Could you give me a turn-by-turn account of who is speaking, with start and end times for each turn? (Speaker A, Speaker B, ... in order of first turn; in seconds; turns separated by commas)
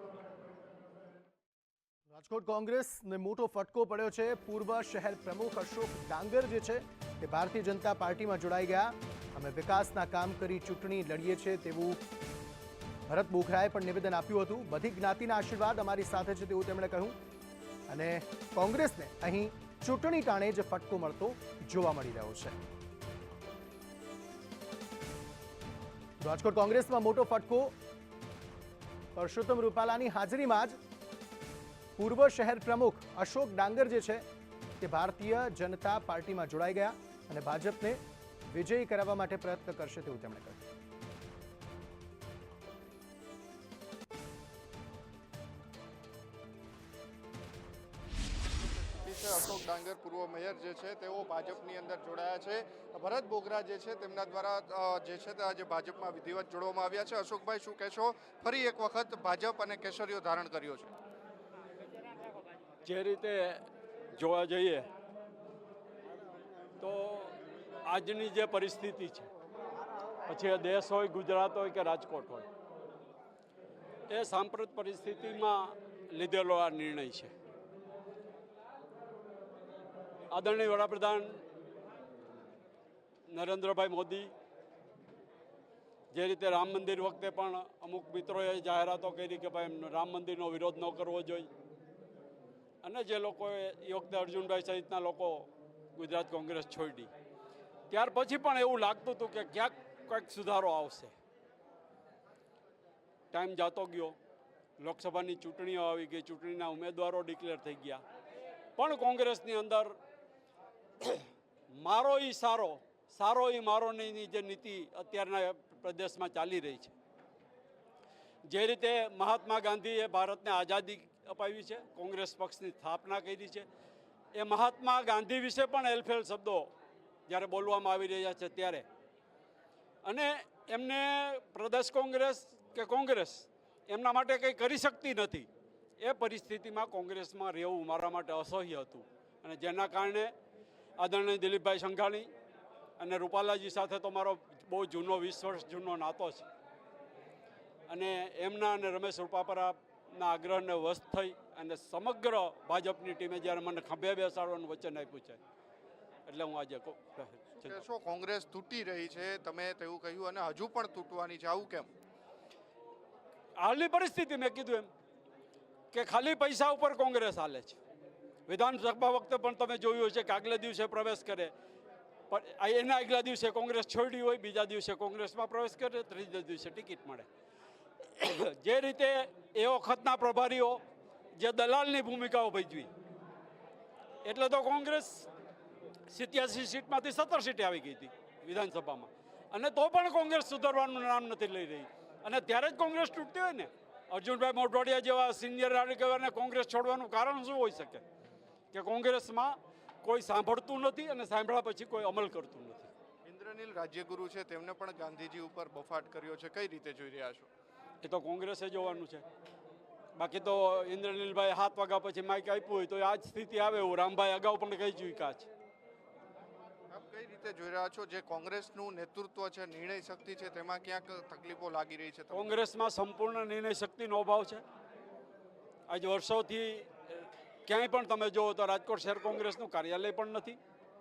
Speaker A: 2.1-12.0, Speaker A: 13.1-17.1, Speaker A: 17.9-22.6, Speaker A: 26.2-27.7, Speaker A: 29.2-30.8, Speaker A: 32.0-34.2, Speaker A: 34.8-40.6, Speaker B: 48.9-60.9, Speaker C: 62.9-64.9, Speaker C: 66.8-69.3, Speaker C: 70.3-72.5, Speaker C: 74.1-77.3, Speaker C: 80.3-81.4, Speaker C: 83.3-84.3, Speaker C: 86.1-91.5, Speaker C: 92.8-97.1, Speaker C: 97.9-101.2, Speaker C: 103.3-104.2, Speaker C: 104.8-108.0, Speaker C: 108.8-110.0, Speaker C: 111.0-116.9, Speaker C: 118.5-123.7, Speaker C: 124.3-126.7, Speaker C: 127.3-128.9, Speaker C: 130.0-135.5, Speaker C: 136.0-140.3, Speaker C: 141.0-142.3, Speaker C: 143.0-146.5, Speaker C: 147.9-155.4, Speaker C: 156.3-157.7, Speaker B: 157.5-161.9, Speaker C: 163.6-164.9, Speaker C: 165.9-167.8, Speaker C: 168.5-171.5, Speaker C: 172.3-177.3, Speaker C: 178.0-180.8, Speaker C: 181.4-182.9, Speaker C: 184.2-185.3, Speaker C: 186.1-198.0, Speaker C: 198.7-202.9, Speaker B: 203.2-207.5, Speaker C: 208.0-209.2, Speaker C: 210.2-215.5, Speaker B: 216.9-222.6, Speaker C: 222.3-224.6, Speaker C: 225.9-230.6